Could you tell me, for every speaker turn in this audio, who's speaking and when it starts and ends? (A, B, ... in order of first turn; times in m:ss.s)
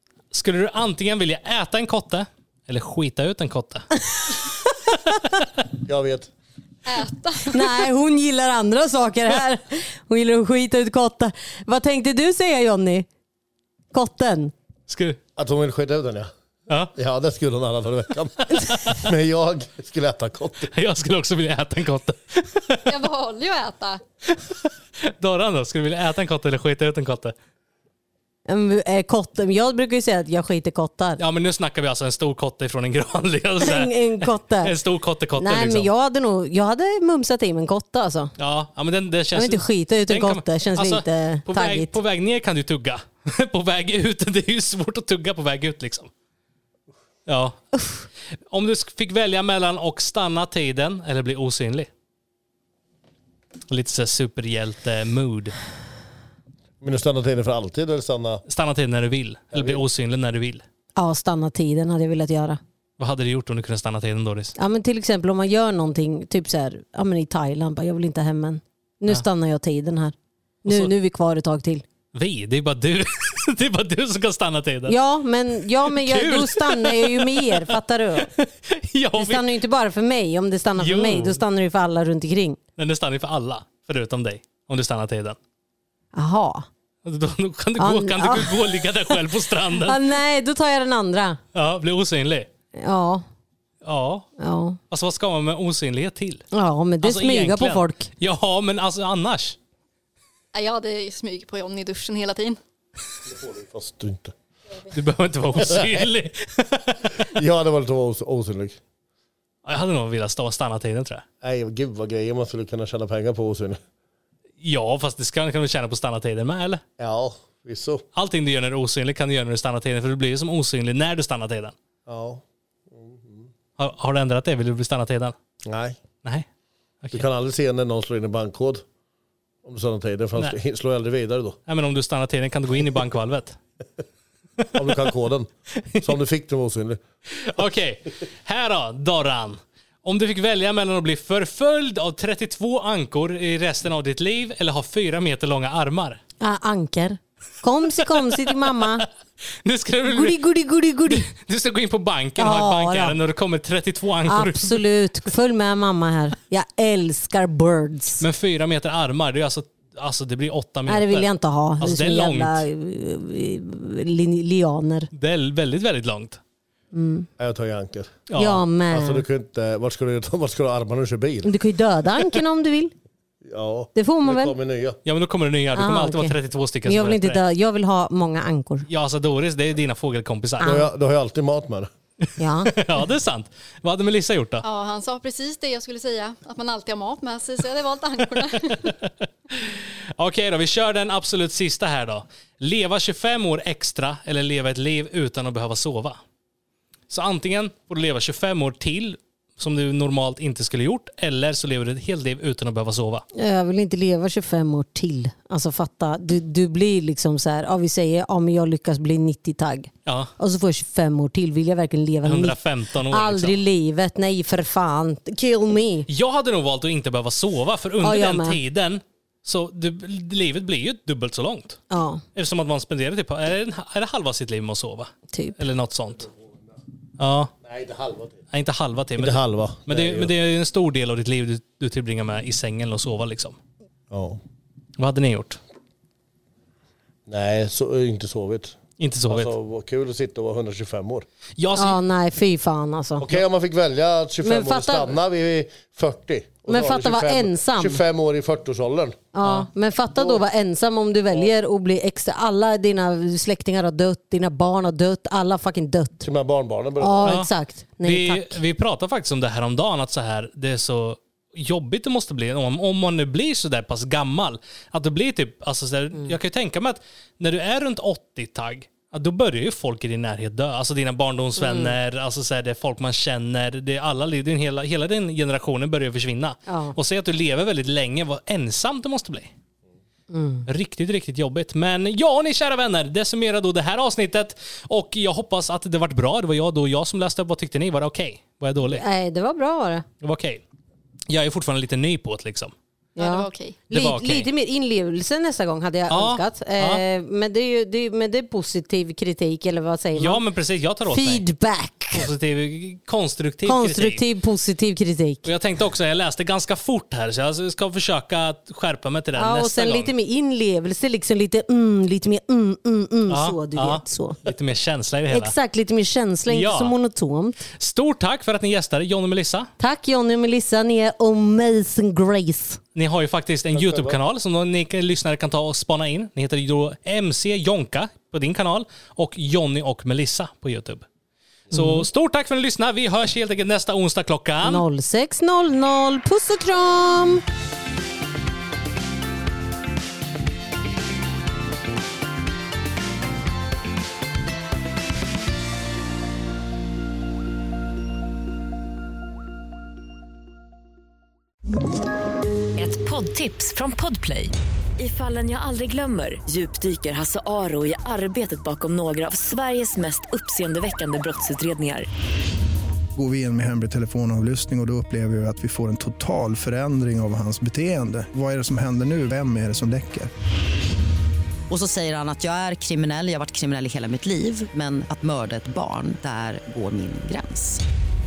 0:00.3-0:03.9 A
0:05.8-0:06.3 B
0:06.8-0:07.7 C
0:07.5-0:13.0 D
0:13.9-0:14.5 D
0:14.9-0:15.2 A
0:15.4-0:16.3 B
0:16.9-0:20.7 B
0:20.7-0:22.9 A
0:22.8-0:24.0 C
0:24.3-0:27.3 A
0:28.5-0:31.2 D
0:31.2-0:35.9 A
0:33.6-0:34.7 D
0:35.4-0:38.3 D
0:38.4-0:46.1 A
0:39.3-0:41.9 D
0:47.3-0:47.6 A
0:48.5-0:51.9 A
0:53.7-0:55.5 A
0:56.8-0:58.4 B
0:58.5-1:00.6 A
0:59.5-0:59.8 B
1:01.0-1:02.6 D
1:03.0-1:04.5 A
1:04.6-1:10.1 D
1:10.6-1:11.8 D
1:10.7-1:10.9 A
1:12.1-1:15.0 A
1:14.9-1:18.3 D
1:15.8-1:19.5 A
1:19.2-1:22.6 D
1:20.8-1:21.4 A
1:22.8-1:25.4 A
1:26.1-1:26.7 D
1:27.0-1:30.0 A
1:27.8-1:29.2 D
1:29.7-1:31.4 D
1:31.5-1:32.5 A
1:32.8-1:33.2 D
1:33.8-1:34.3 A
1:34.4-1:34.8 D
1:34.9-1:36.4 A
1:36.5-1:38.1 D
1:37.0-1:39.6 A
1:40.5-1:42.6 C
1:43.2-1:44.3 B
1:44.9-1:47.1 A
1:45.6-1:46.1 B
1:47.2-1:48.8 B
1:49.6-1:51.2 A
1:51.4-1:53.8 B
1:54.6-1:56.8 A
1:57.0-1:58.0 B
1:58.1-2:01.7 A
2:02.1-2:03.5 B
2:03.8-2:05.3 A
2:05.6-2:06.0 B
2:07.1-2:08.8 B
2:09.6-2:11.6 B
2:11.7-2:13.6 A
2:14.7-2:17.0 B
2:17.3-2:26.2 A
2:26.4-2:29.0 D
2:28.3-2:29.0 A
2:29.6-2:30.4 A
2:30.1-2:31.2 D
2:31.1-2:34.8 A
2:32.4-2:33.2 D
2:34.3-2:38.2 D
2:38.2-2:42.6 A
2:40.9-2:45.1 D
2:45.1-2:46.4 A
2:46.9-2:47.3 D
2:47.4-2:48.2 B
2:48.3-2:48.6 A
2:48.3-2:49.2 D
2:48.9-2:51.6 B
2:51.4-2:52.9 D
2:53.4-2:55.0 B
2:54.0-2:54.5 D
2:55.0-2:57.4 A
2:55.7-2:58.8 D
2:58.9-3:00.7 A
3:00.6-3:00.9 D
3:00.6-3:01.9 B
3:02.2-3:04.6 A
3:02.4-3:03.1 D
3:04.6-3:08.9 C
3:08.7-3:16.2 A
3:17.1-3:23.2 A
3:23.4-3:36.1 D
3:30.0-3:30.3 A
3:32.2-3:33.6 A
3:36.1-3:41.8 A
3:38.0-3:38.6 D
3:41.9-3:42.2 D
3:42.3-3:46.3 A
3:45.3-3:45.6 D
3:47.2-3:47.5 A
3:47.6-3:48.4 B
3:48.5-3:53.6 A
3:49.2-3:50.3 B
3:54.1-3:54.4 B
3:55.0-3:55.6 A
3:57.3-3:58.8 B
3:59.0-3:59.5 A
3:59.3-4:01.2 B
4:01.6-4:02.0 A
4:01.8-4:03.3 D
4:03.2-4:09.3 B
4:04.4-4:05.1 D
4:06.7-4:08.0 D
4:09.3-4:16.2 D
4:09.4-4:09.7 A
4:10.1-4:10.4 B
4:16.2-4:17.4 B
4:17.0-4:18.6 D
4:17.2-4:17.5 A
4:18.0-4:39.5 A
4:31.6-4:31.9 D
4:36.7-4:36.9 D
4:40.3-4:40.7 D
4:40.7-4:49.0 A
4:48.9-4:50.0 D
4:50.2-4:50.6 A
4:51.3-4:52.7 A
4:53.2-5:00.4 D
4:53.2-4:53.8 C
4:53.9-4:54.5 A
4:56.1-4:57.0 A
5:00.2-5:01.4 A
5:01.1-5:02.3 D
5:02.1-5:04.2 A
5:03.6-5:05.5 D
5:05.4-5:10.1 A
5:09.4-5:14.4 D
5:13.3-5:15.5 A
5:15.3-5:17.6 D
5:16.5-5:16.9 A
5:17.8-5:19.7 A
5:19.8-5:22.8 D
5:22.9-5:31.0 A
5:23.7-5:24.2 B
5:31.7-5:34.8 A
5:31.7-5:32.0 D
5:34.6-5:37.4 D
5:52.8-6:02.1 E
6:03.1-6:10.3 F
6:11.7-6:17.8 G